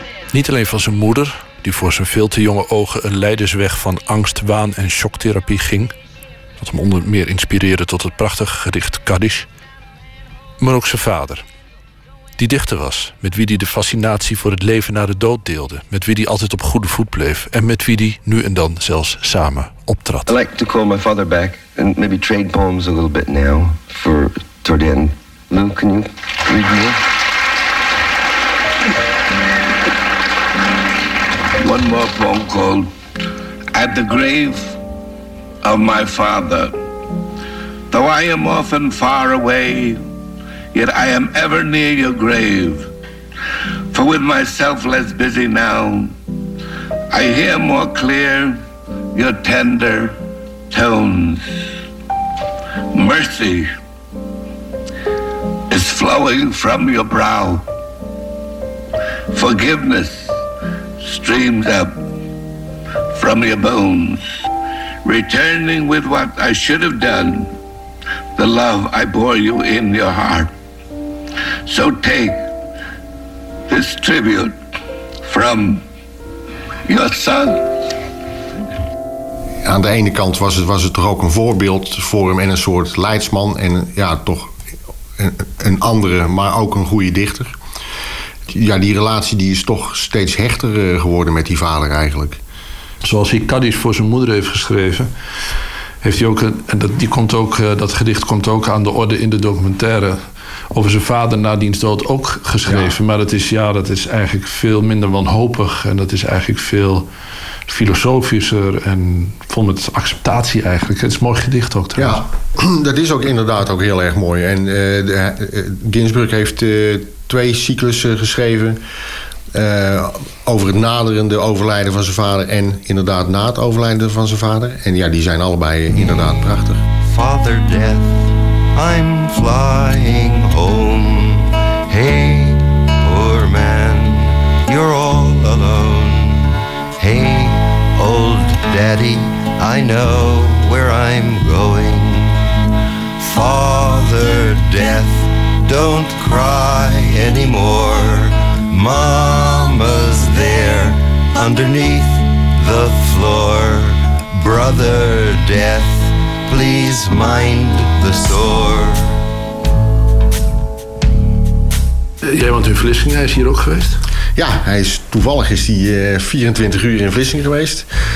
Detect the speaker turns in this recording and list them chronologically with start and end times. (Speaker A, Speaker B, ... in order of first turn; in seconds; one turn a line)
Speaker A: 0.3-5.9
Speaker A: 6.6-9.5
Speaker A: 10.6-11.4
Speaker A: 12.4-20.3
Speaker B: 20.3-27.0
Speaker C: 31.6-32.9
Speaker C: 33.7-34.8
Speaker C: 35.6-36.7
Speaker C: 37.9-40.0
Speaker C: 40.7-42.9
Speaker C: 43.9-46.1
Speaker C: 47.1-48.6
Speaker C: 49.1-50.2
Speaker C: 50.7-51.7
Speaker C: 52.9-53.7
Speaker C: 55.7-57.6
Speaker C: 59.3-60.4
Speaker C: 61.0-62.0
Speaker C: 63.1-64.3
Speaker C: 65.0-67.5
Speaker C: 68.3-70.5
Speaker C: 71.7-72.4
Speaker C: 73.7-74.5
Speaker C: 75.3-75.8
Speaker C: 76.9-77.7
Speaker D: 79.6-84.5
Speaker D: 85.2-87.5
Speaker D: 88.5-92.4
Speaker A: 93.0-95.1
Speaker A: 96.0-107.1
Speaker D: 102.6-103.0
Speaker A: 107.7-112.2
Speaker D: 111.9-118.8
Speaker D: 119.5-126.8
Speaker E: 127.0-142.5
Speaker E: 143.2-159.2
Speaker A: 162.2-164.0
Speaker D: 164.3-167.9